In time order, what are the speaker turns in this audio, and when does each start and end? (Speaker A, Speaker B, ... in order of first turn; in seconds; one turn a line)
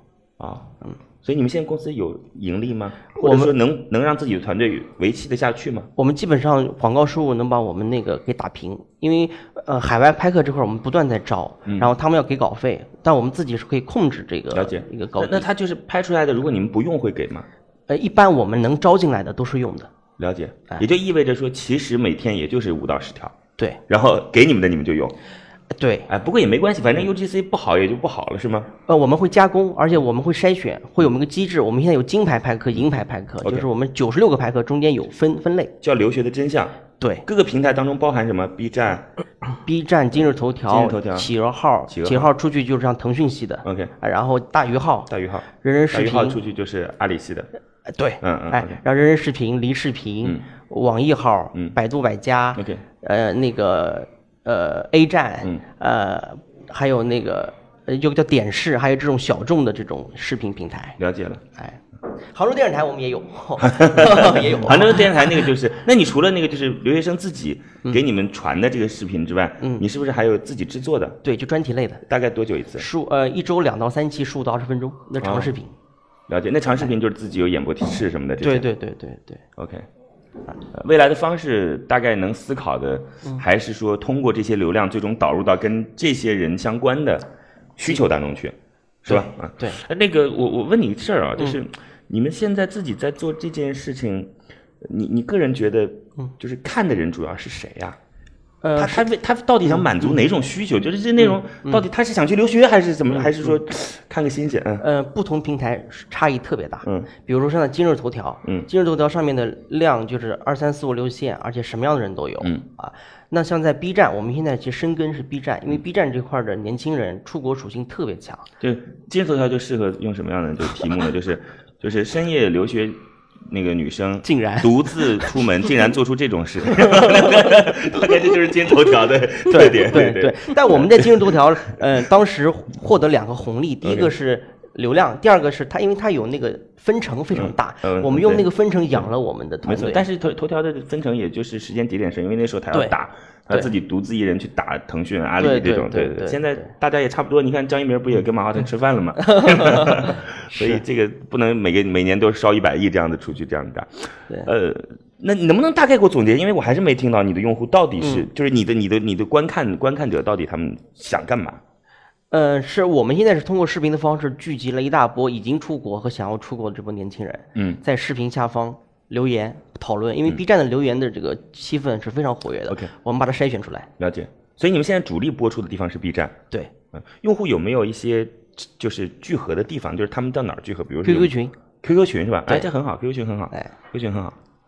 Speaker A: 0.4-5.9
Speaker B: 3.1-3.5
Speaker B: 6.0-15.5
Speaker A: 11.7-11.9
Speaker A: 14.5-17.5
Speaker B: 17.9-19.9
Speaker A: 20.2-23.4
Speaker A: 23.9-25.2
Speaker B: 25.7-26.1
Speaker A: 26.1-28.7
Speaker B: 28.9-35.7
Speaker A: 35.8-39.1
Speaker B: 37.0-37.2
Speaker B: 39.6-46.4
Speaker A: 40.7-41.3
Speaker A: 41.9-42.3
Speaker A: 43.6-43.9
Speaker A: 45.1-47.5
Speaker B: 47.9-61.0
Speaker A: 48.2-48.8
Speaker A: 52.5-52.8
Speaker A: 61.0-61.4
Speaker B: 62.3-65.3
Speaker A: 63.6-71.2
Speaker B: 71.2-72.0
Speaker A: 72.1-72.9
Speaker B: 72.8-75.7
Speaker A: 75.2-75.5
Speaker A: 76.3-78.7
Speaker B: 78.4-79.4
Speaker A: 79.6-79.9
Speaker A: 80.7-98.0
Speaker B: 89.1-89.8
Speaker B: 98.6-99.1
Speaker A: 98.8-104.9
Speaker B: 99.7-100.1
Speaker B: 101.2-101.9
Speaker B: 103.1-103.5
Speaker B: 104.8-118.5
Speaker A: 106.8-107.1
Speaker A: 118.6-131.4
Speaker B: 124.2-125.3
Speaker B: 126.7-127.7
Speaker B: 129.5-140.1
Speaker A: 133.8-134.1
Speaker A: 137.3-138.5
Speaker A: 139.7-161.6
Speaker B: 145.4-146.7
Speaker B: 149.2-150.8
Speaker B: 158.0-158.3
Speaker B: 162.3-173.9
Speaker A: 167.6-167.8
Speaker A: 174.0-176.4
Speaker A: 176.9-184.4
Speaker B: 181.0-181.5